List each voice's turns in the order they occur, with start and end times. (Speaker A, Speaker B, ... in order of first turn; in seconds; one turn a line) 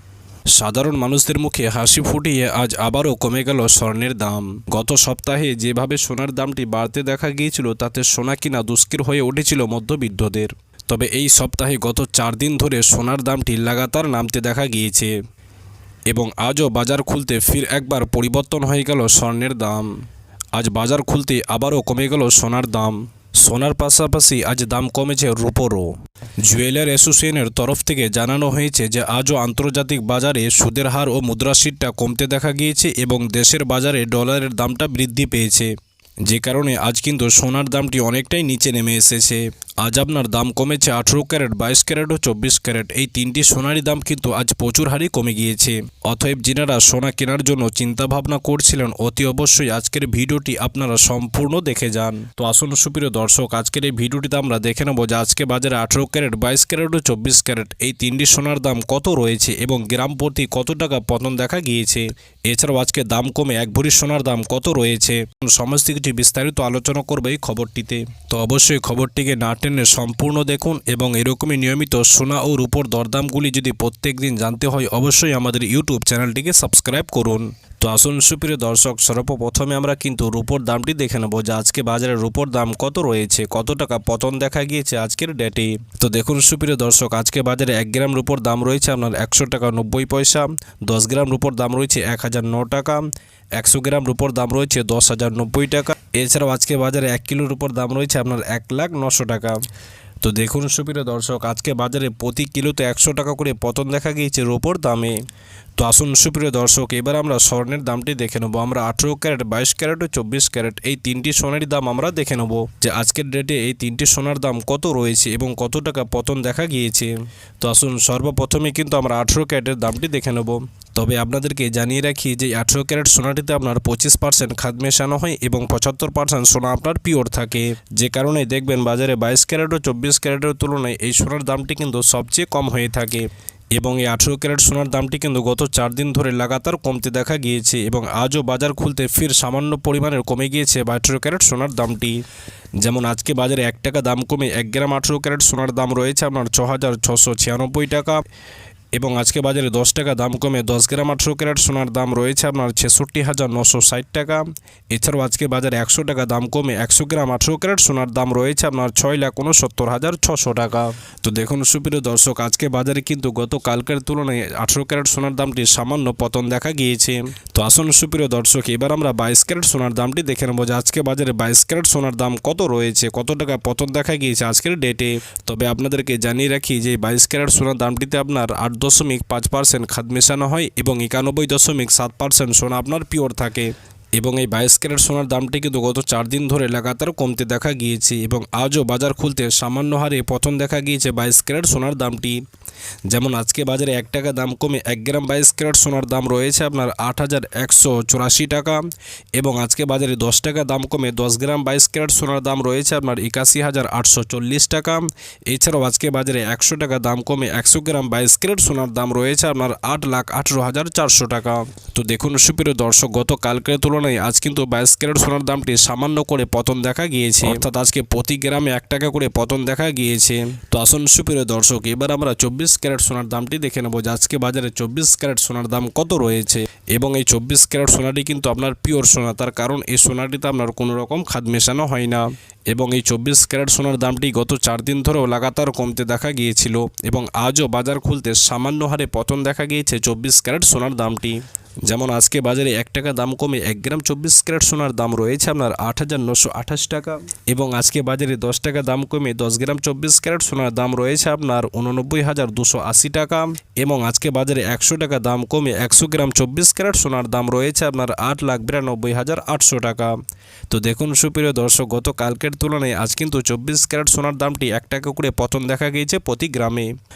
Speaker A: 0.5-15.1
Speaker A: 16.1-19.9
Speaker A: 20.5-35.7
Speaker A: 36.2-99.6
Speaker A: 100.2-105.2
Speaker A: 105.8-142.2
Speaker A: 142.8-148.2
Speaker A: 148.9-192.4
Speaker A: 193.1-198.8
Speaker A: 199.4-260.1
Speaker A: 260.7-266.9